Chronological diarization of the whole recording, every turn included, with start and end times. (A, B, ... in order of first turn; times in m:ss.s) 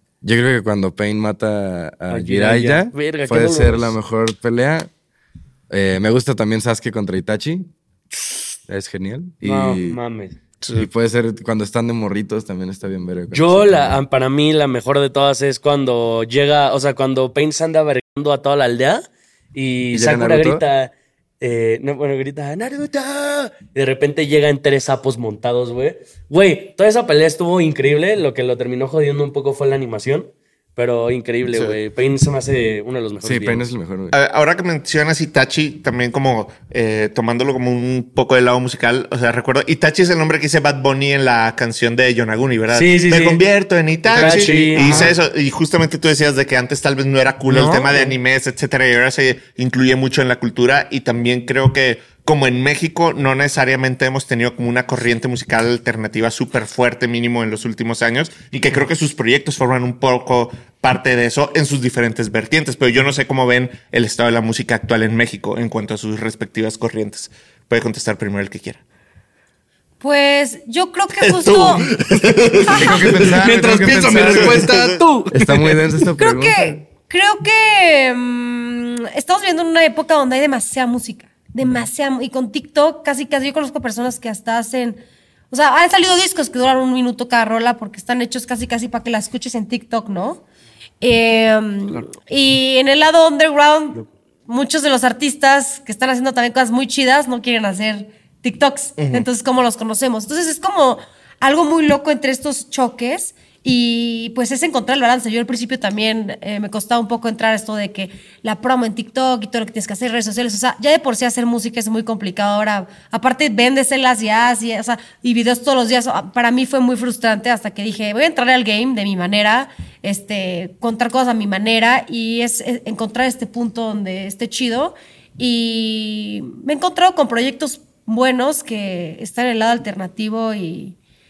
0:00.2-0:04.9 A
0:02.1-0:03.9 B
0:05.7-0:07.7 A
0:08.7-0:10.0 A
0:09.4-0:10.4 B
0:10.6-0:10.9 C
0:10.7-0:14.0 A
0:13.3-0:33.6 B
0:19.9-0:20.6 A
0:31.5-0:31.8 C
0:33.2-0:34.2 A
0:34.1-1:08.8 C
0:42.7-0:43.4 B
0:44.1-0:45.1 B
0:44.1-0:45.1 D
0:47.5-0:48.2 B
1:10.0-1:11.9 E
1:11.2-1:15.0 C
1:12.7-1:14.8 A
1:12.7-1:13.2 E
1:12.7-1:15.8 D
1:15.3-1:16.8 A
1:16.2-1:30.4 E
1:31.0-2:11.0 E
1:39.0-1:39.2 C